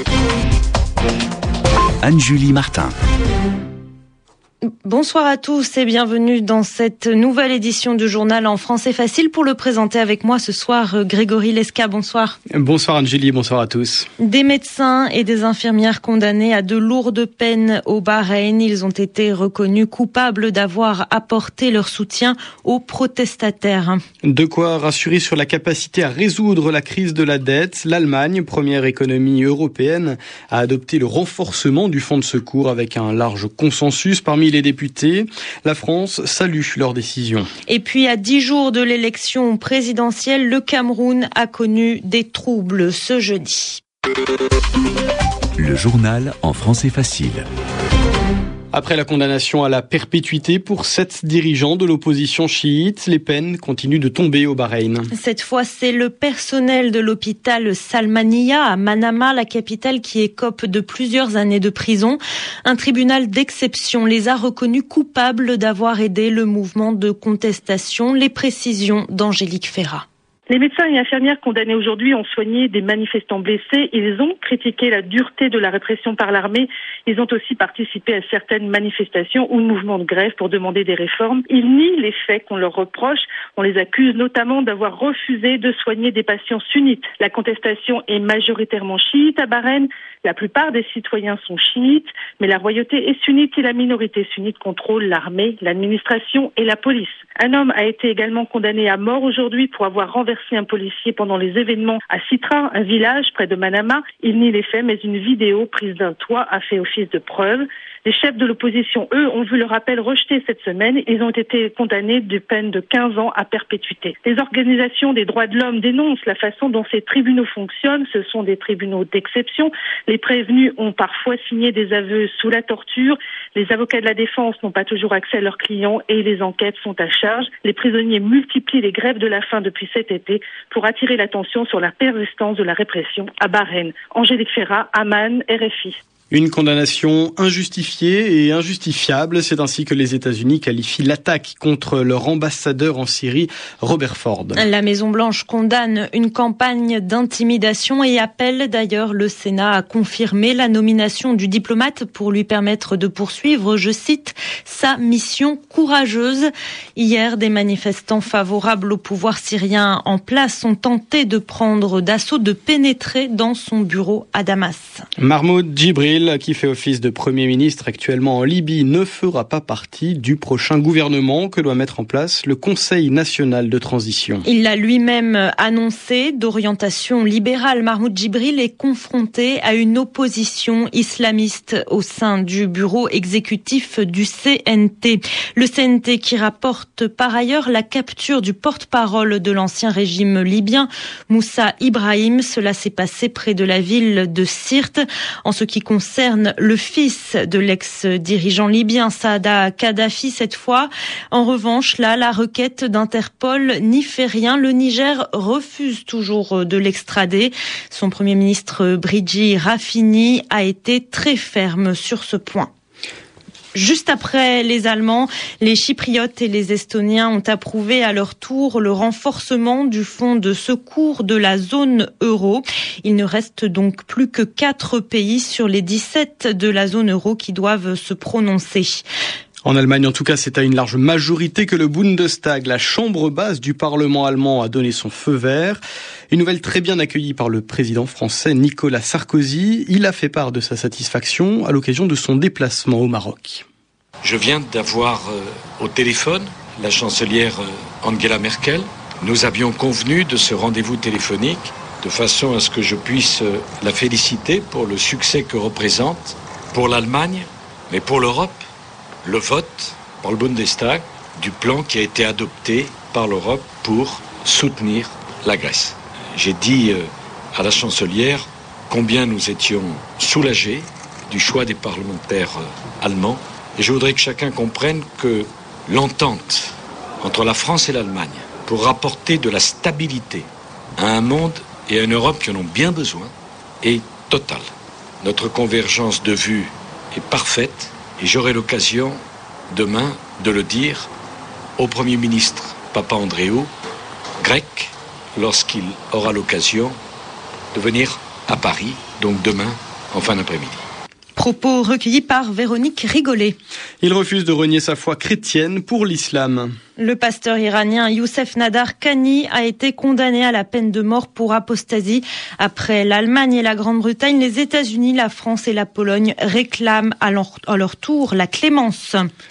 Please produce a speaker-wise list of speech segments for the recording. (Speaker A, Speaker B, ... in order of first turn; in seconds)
Speaker A: 2.0-3.0, 45.6-47.5
Speaker B: 4.7-12.4, 14.2-24.0, 37.7-43.8, 55.1-70.0, 144.6-165.1, 174.5-212.7, 213.8-229.0, 301.4-303.6, 307.0-319.3
Speaker C: 12.5-14.1, 24.3-37.5, 48.7-55.1, 136.3-144.6, 165.2-174.4, 229.7-243.7, 304.0-306.7
Speaker D: 70.5-136.0
Speaker E: 244.2-258.6, 259.2-284.7, 285.2-291.1, 291.8-293.7, 294.4-297.0, 297.7-300.9